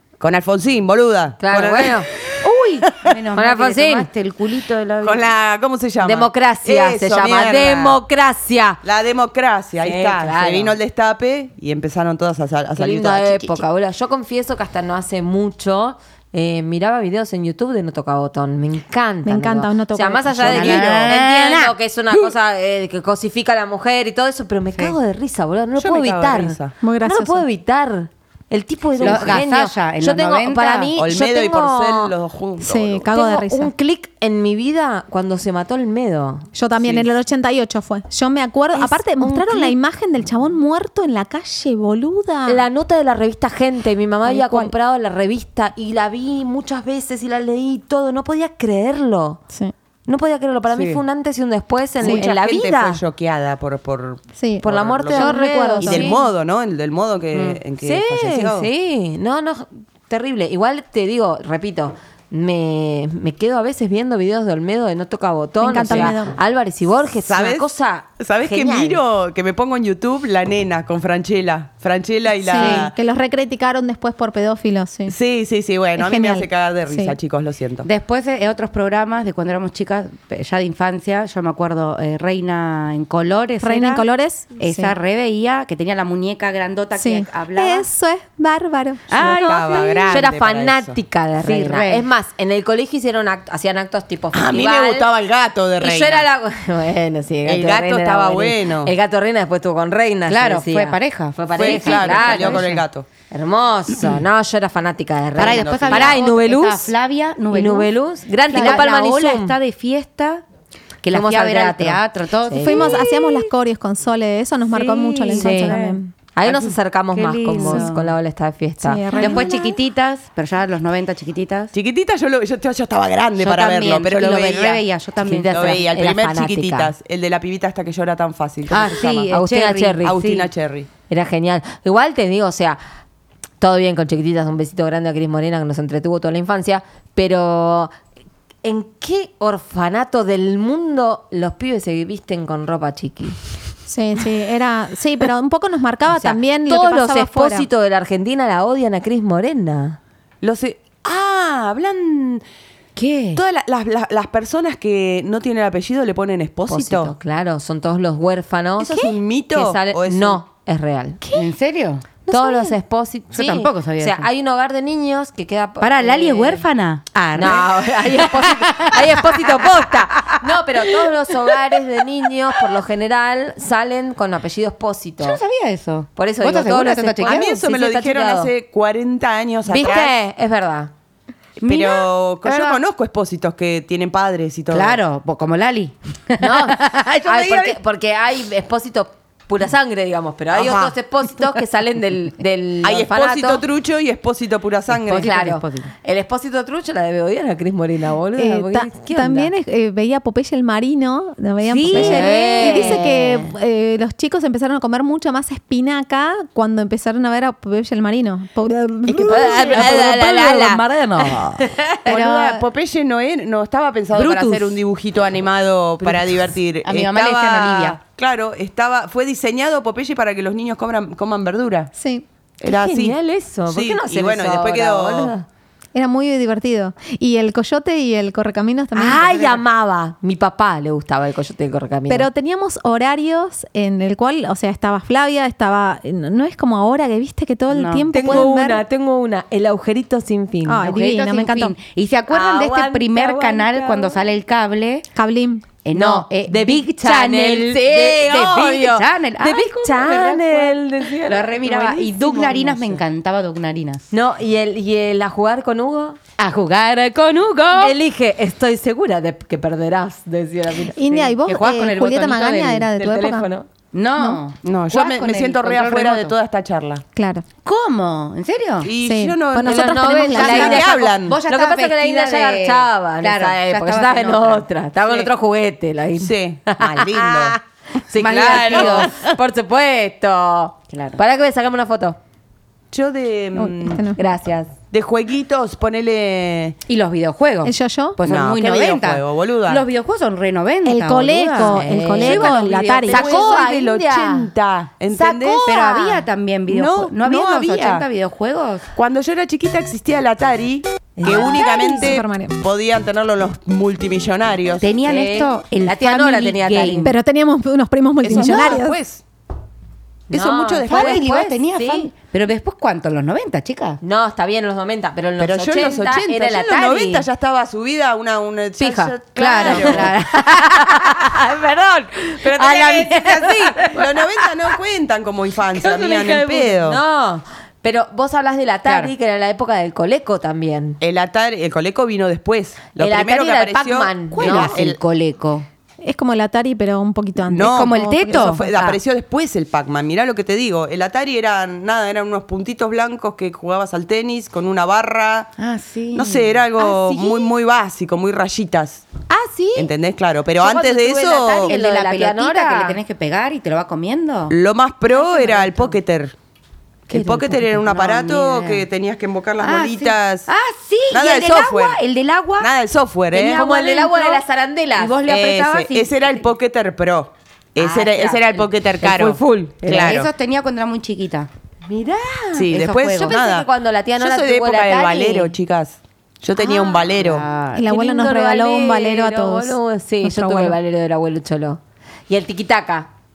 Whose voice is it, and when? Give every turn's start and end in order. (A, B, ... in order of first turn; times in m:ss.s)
0:00.2-0:02.4 A
0:01.4-0:02.1 B
0:02.4-0:05.3 C
0:03.4-0:04.1 B
0:05.0-0:08.0 A
0:06.0-0:08.8 B
0:08.8-0:13.6 A
0:09.8-0:10.8 B
0:12.8-0:32.1 B
0:19.2-0:20.7 D
0:20.4-0:21.2 A
0:20.5-0:21.7 C
0:25.8-0:26.7 A
0:26.8-0:27.4 D
0:29.0-0:30.9 C
0:29.0-0:29.4 A
0:30.9-0:33.1 A
0:32.6-0:33.7 D
0:33.1-0:36.5 B
0:36.5-0:42.6 D
0:36.8-0:37.1 A
0:38.7-0:39.7 B
0:42.5-0:49.4 B
0:50.1-0:53.0 B
0:50.7-0:51.0 A
0:52.0-0:58.7 A
0:54.4-0:56.2 D
0:54.6-0:56.2 B
0:57.8-1:09.0 B
1:05.6-1:06.4 D
1:07.2-1:12.9 A
1:12.4-1:15.2 D
1:15.1-1:17.9 A
1:16.0-1:17.1 D
1:17.8-1:24.0 C
1:23.6-1:25.0 D
1:24.6-1:27.8 C
1:27.0-1:30.1 D
1:29.1-1:30.1 C
1:29.1-1:31.0 A
1:29.7-1:35.1 B
1:31.4-1:32.0 C
1:34.3-1:36.3 A
1:35.8-1:42.8 B
1:37.4-1:38.9 A
1:40.3-1:42.8 C
1:41.5-1:43.0 A
1:43.3-1:46.9 B
1:45.4-1:47.9 C
1:45.4-1:46.2 A
1:47.5-1:49.6 B
1:48.5-1:50.4 C
1:48.5-1:48.8 D
1:51.0-1:53.2 C
1:51.1-1:53.0 B
1:52.6-1:56.1 D
1:54.7-1:58.1 C
1:55.4-1:55.8 B
1:56.3-1:59.5 B
1:58.8-1:59.8 D
1:59.2-2:01.7 C
2:01.7-2:04.8 A
2:03.4-2:05.8 C
2:05.2-2:06.9 B
2:05.4-2:09.3 A
2:08.7-2:10.5 C
2:09.3-2:10.2 B
2:10.0-2:10.9 A
2:11.1-2:12.8 B
2:13.6-2:17.9 B
2:18.6-2:23.4 B
2:23.9-2:27.7 D
2:26.1-2:30.0 B
2:30.4-2:32.4 A
2:33.0-2:33.4 C
2:33.3-2:37.1 A
2:36.7-2:41.4 B
2:38.8-2:40.4 A
2:41.3-2:42.7 C
2:42.2-2:46.6 B
2:43.3-2:44.3 C
2:45.8-2:51.8 C
2:47.3-2:55.4 B
2:55.2-2:57.5 C
2:56.2-2:58.5 B
2:57.2-3:00.1 A
2:59.7-3:00.9 B
2:59.7-3:00.0 C
3:01.6-3:05.0 A
3:01.6-3:02.8 C
3:04.7-3:07.8 C
3:06.4-3:13.6 B
3:10.5-3:10.9 A
3:12.8-3:15.4 A
3:15.0-3:15.9 C
3:15.2-3:19.5 B
3:18.4-3:29.8 D
3:21.6-3:23.5 C
3:21.9-3:23.4 B
3:29.1-3:32.6 C
3:29.3-3:30.1 B
3:29.3-3:30.8 A
3:31.6-3:32.0 B
3:32.0-3:41.9 A
3:34.1-3:34.8 C
3:36.8-3:38.0 C
3:42.0-3:42.2 D
3:42.6-3:43.2 A
3:42.6-3:45.4 B
3:43.7-3:45.3 A
3:45.9-3:49.6 D
3:48.9-3:52.3 B
3:52.1-3:58.8 D
3:57.7-3:58.4 C
3:58.1-4:00.8 B
4:00.7-4:01.7 D
4:00.8-4:05.0 C
4:02.3-4:04.2 B
4:05.1-4:05.7 D
4:05.8-4:14.1 C
4:05.9-4:13.0 B
4:14.1-4:16.2 B
4:16.4-4:18.0 C
4:17.8-4:21.3 B
4:21.0-4:23.5 D
4:21.4-4:22.8 C
4:23.0-4:23.7 B
4:23.9-4:26.3 C
4:24.6-4:27.0 A
4:27.2-4:27.4 D
4:27.6-4:28.9 C
4:28.8-4:31.4 A
4:29.0-4:30.9 D
4:29.6-4:30.9 B
4:30.4-4:34.6 C
4:31.5-4:42.2 B
4:36.2-4:37.6 A
4:38.2-4:39.3 A
4:38.2-4:39.1 C
4:40.9-4:41.2 C
4:42.9-4:44.0 A
4:43.6-4:44.2 D
4:44.2-4:44.7 B
4:44.9-4:46.8 A
4:46.9-4:53.6 C
4:47.6-4:48.2 D
4:48.2-4:49.8 A
4:50.8-4:53.3 D
4:51.6-4:54.5 B
4:53.1-4:55.7 A
4:55.1-4:56.2 B
4:55.6-4:58.9 C
4:56.7-4:58.1 A
4:58.9-5:04.9 A
5:01.2-5:01.6 B
5:01.2-5:02.6 D
5:04.8-5:07.1 C
5:05.0-5:07.1 B
5:07.0-5:09.0 D
5:08.2-5:09.2 A
5:10.3-5:12.1 B
5:10.3-5:11.2 A
5:10.9-5:14.0 C
5:14.0-5:17.3 B
5:15.4-5:20.1 A
5:18.8-5:24.4 B
5:19.4-5:21.3 C
5:22.4-5:27.0 A
5:25.8-5:31.0 B
5:28.8-5:29.1 C
5:31.0-5:35.0 A
5:33.0-5:34.8 B
5:34.4-5:35.6 C
5:36.0-5:38.7 D
5:37.5-5:45.5 A
5:37.6-5:38.9 C
5:45.6-5:46.5 C
5:46.1-5:49.0 A
5:46.8-5:47.5 B
5:49.3-5:49.9 B
5:49.7-5:51.7 A
5:50.6-5:53.0 B
5:51.6-5:54.5 C
5:54.5-5:56.3 A
5:55.1-5:55.9 C
5:57.1-6:00.5 A
5:57.1-5:58.8 C
5:59.6-6:02.7 C
6:01.1-6:02.0 A
6:02.6-6:03.6 A
6:03.3-6:04.4 C
6:03.4-6:05.2 B
6:05.0-6:06.4 C
6:05.2-6:10.3 A
6:07.8-6:10.2 B
6:08.0-6:08.4 C
6:09.9-6:11.5 C
6:11.9-6:15.5 B
6:12.5-6:17.4 A
6:12.7-6:13.4 C
6:17.0-6:17.9 C
6:17.7-6:20.8 D
6:17.8-6:23.1 B